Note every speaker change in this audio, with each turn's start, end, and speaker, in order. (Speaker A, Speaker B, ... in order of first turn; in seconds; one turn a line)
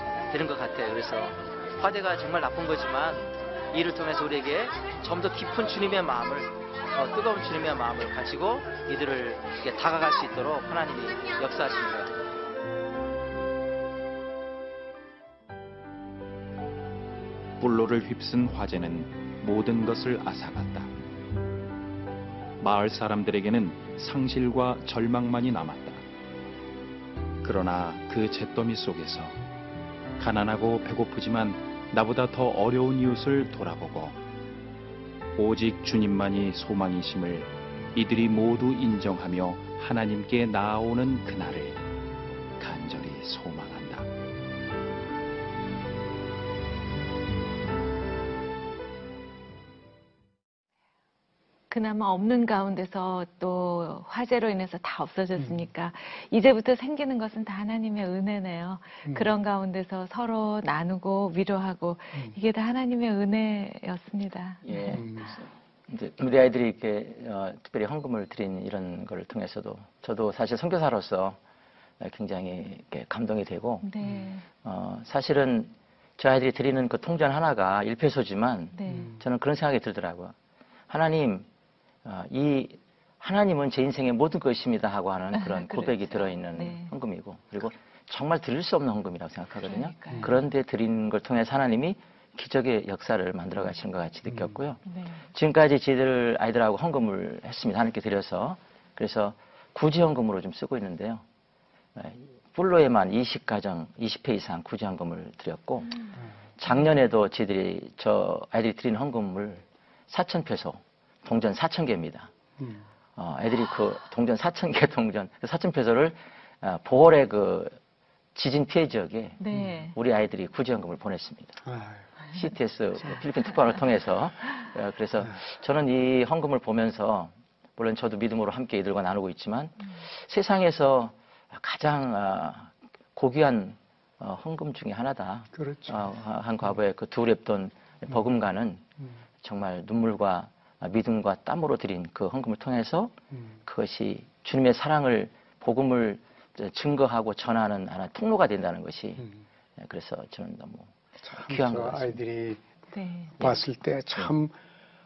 Speaker A: 0.3-12.1
Speaker B: 17.6-20.9
Speaker B: 22.6-26.0
Speaker B: 27.4-29.4
Speaker B: 30.2-34.2
Speaker B: 35.4-41.8
Speaker B: 42.6-44.1
Speaker C: 51.7-65.2
Speaker D: 55.4-55.7
Speaker D: 59.1-59.3
Speaker A: 64.6-71.4
Speaker D: 64.9-65.3
Speaker A: 72.0-73.9
Speaker C: 73.8-74.5
Speaker A: 74.6-80.3
Speaker C: 78.7-79.1
Speaker D: 78.9-79.2
Speaker A: 80.9-81.5
Speaker A: 82.0-94.8
Speaker C: 85.3-86.9
Speaker C: 89.6-90.4
Speaker D: 94.3-94.6
Speaker C: 94.8-95.3
Speaker A: 95.3-101.2
Speaker A: 102.0-106.0
Speaker A: 106.6-112.3
Speaker D: 112.6-112.9
Speaker A: 113.2-117.8
Speaker A: 118.3-119.4
Speaker C: 119.4-120.0
Speaker D: 119.5-119.8
Speaker A: 119.9-121.6
Speaker D: 121.7-122.1
Speaker A: 122.3-138.8
Speaker D: 135.5-136.2
Speaker A: 139.4-143.1
Speaker D: 143.3-143.6
Speaker A: 143.7-149.2
Speaker A: 149.8-152.2
Speaker D: 151.3-152.6
Speaker C: 152.9-153.5
Speaker D: 153.4-154.5
Speaker A: 153.4-153.6